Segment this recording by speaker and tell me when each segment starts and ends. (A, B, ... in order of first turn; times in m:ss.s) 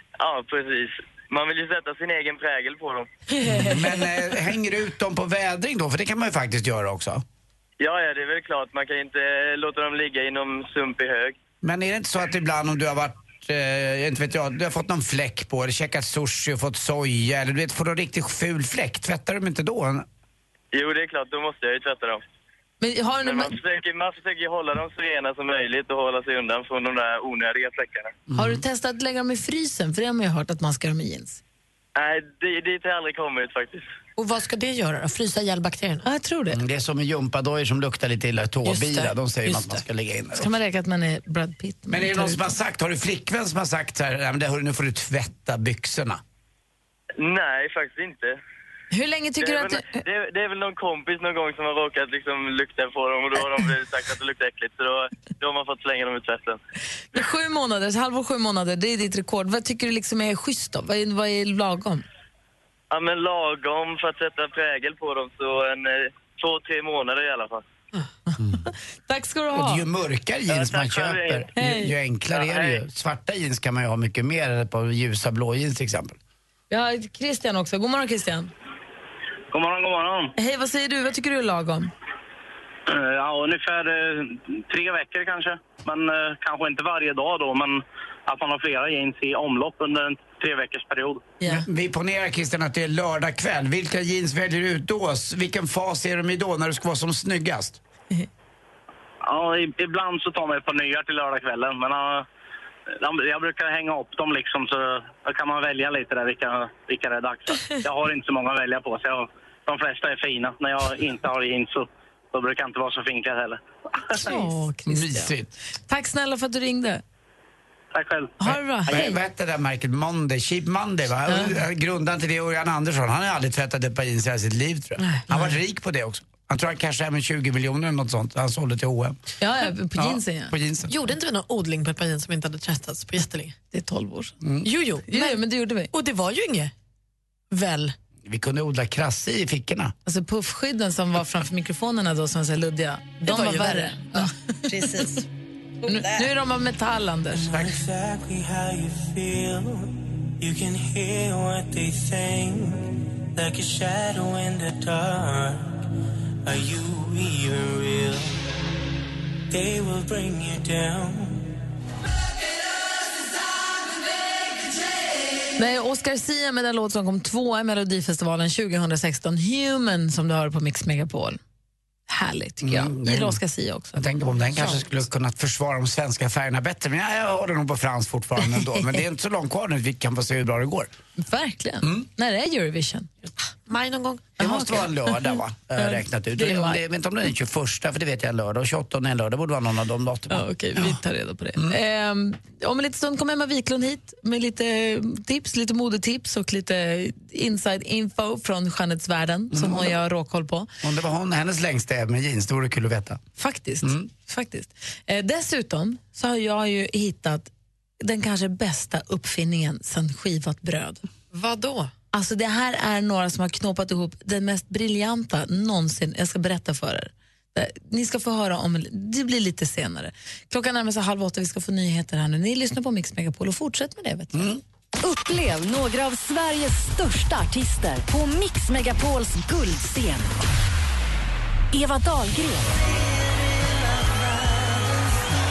0:00.2-0:03.1 A
0:03.4-0:04.0 B
0:03.4-0:07.2 C
0:07.8-0:11.4 A
0:11.6-0:20.0 C
0:20.7-0:22.2 A
0:22.8-0:23.6 B
0:23.2-0:28.1 A
0:28.3-0:28.6 C
0:28.3-0:31.4 B
0:32.0-0:33.8 A
0:34.2-0:36.0 D
0:36.0-0:36.6 B
0:36.5-0:40.5 C
0:38.6-0:39.8 D
0:40.3-0:42.5 B
0:41.9-0:46.2 C
0:47.2-0:48.4 A
0:48.9-0:50.0 B
0:49.4-0:56.6 A
0:57.1-1:02.0 B
1:02.9-1:07.6 A
1:08.3-1:09.8 B
1:09.5-1:16.2 C
1:10.5-1:11.5 A
1:11.6-1:11.9 B
1:12.3-1:12.8 A
1:16.7-1:18.5 B
1:19.5-1:20.3 E
1:20.4-1:21.9 B
1:22.9-1:31.3 E
1:31.4-1:37.8 C
1:39.2-1:42.2 E
1:43.0-1:53.6 E
1:54.1-1:55.3 B
1:54.8-1:55.5 C
1:55.9-1:57.0 B
1:57.9-1:58.3 E
1:58.4-1:59.2 B
1:58.9-2:09.2 C
2:01.3-2:01.6 B
2:05.1-2:05.4 D
2:09.4-2:10.5 B
2:09.9-2:10.9 C
2:10.9-2:13.6 D
2:13.7-2:14.3 B
2:14.4-2:14.7 C
2:14.6-2:15.4 D
2:15.1-2:15.9 B
2:15.9-2:16.7 D
2:17.5-2:17.9 D
2:18.2-2:19.9 C
2:20.0-2:24.3 B
2:23.2-2:25.2 D
2:25.8-2:26.3 D
2:25.9-2:27.6 B
2:27.4-2:35.8 F
2:27.5-2:27.8 C
2:36.4-2:38.4 F
2:39.5-2:41.5 F
2:45.6-2:51.4 B
2:52.1-2:54.0 B
2:52.6-2:53.4 C
2:53.9-3:00.9 C
2:54.6-2:54.8 D
3:01.2-3:03.3 B
3:03.7-3:04.3 D
3:04.4-3:05.1 B
3:04.4-3:11.0 C
3:05.8-3:06.8 B
3:10.3-3:20.7 B
3:19.5-3:20.0 C
3:20.8-3:23.2 C
3:23.4-3:27.5 B
3:28.0-3:31.0 B
3:31.3-3:31.9 D
3:32.1-3:44.5 B
3:44.3-3:44.6 C
3:45.0-3:50.4 G
3:51.7-3:52.8 G